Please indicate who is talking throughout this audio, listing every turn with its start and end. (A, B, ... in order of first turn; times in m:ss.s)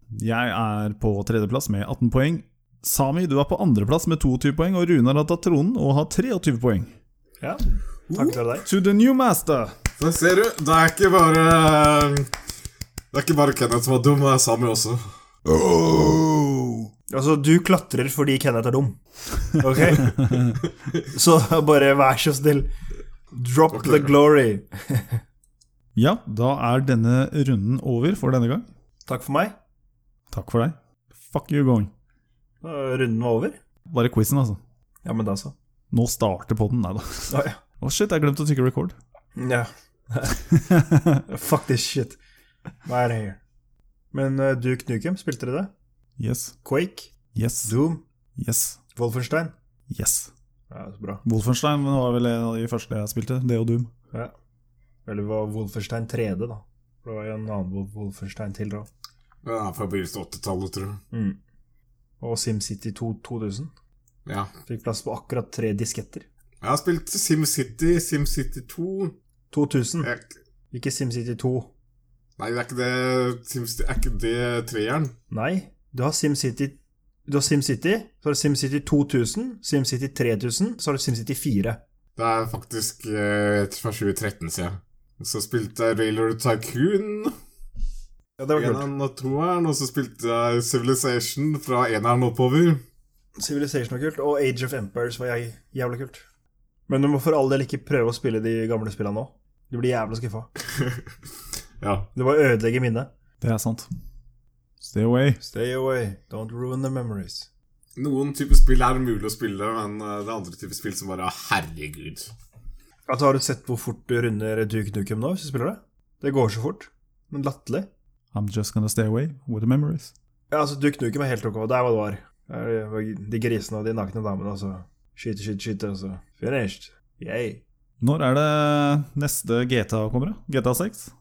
0:00.1-0:06.9 A
0:07.4-0:08.7 B
0:08.1-0:09.8 A
0:10.0-0:12.3 C
0:13.1-0:15.0 C
0:15.5-0:16.9 A
0:17.1-0:19.0 B
0:19.5-0:20.3 B
0:20.0-0:20.6 A
0:21.1-0:22.7 B
0:23.3-0:25.2 B
0:23.7-0:24.1 C
0:26.0-0:28.7 A
0:29.1-0:29.6 B
0:30.3-0:31.9 A
0:32.6-0:33.6 B
0:33.9-0:34.6 A
0:35.0-0:35.5 B
0:35.9-0:39.0 A
0:37.3-0:37.6 B
0:39.4-0:40.4 B
0:40.5-0:41.2 A
0:41.3-0:42.2 B
0:42.8-0:43.4 B
0:44.1-0:45.7 B
0:46.2-0:46.6 A
0:46.6-0:47.1 B
0:47.3-0:47.8 A
0:47.6-0:48.0 B
0:48.4-0:48.8 A
0:49.0-0:49.5 B
0:49.9-0:50.3 A
0:50.7-0:51.2 B
0:51.2-0:53.9 A
0:55.1-0:58.9 B
0:59.4-1:01.0 C
1:01.1-1:01.4 B
1:02.2-1:03.7 B
1:04.3-1:04.5 C
1:04.7-1:06.2 B
1:06.6-1:09.1 C
1:09.5-1:10.1 B
1:10.0-1:10.3 C
1:10.7-1:11.7 B
1:12.4-1:15.1 C
1:15.3-1:21.8 B
1:22.2-1:27.4 C
1:28.4-1:28.9 B
1:28.5-1:32.8 C
1:33.4-1:36.2 B
1:36.9-1:40.5 B
1:41.8-1:42.1 C
1:42.2-1:43.1 B
1:43.4-1:43.9 A
1:44.8-1:45.4 A
1:45.4-1:47.5 B
1:48.0-1:52.3 C
1:53.1-1:57.9 B
1:58.3-2:00.1 A
2:00.5-2:07.6 B
2:08.0-2:11.1 A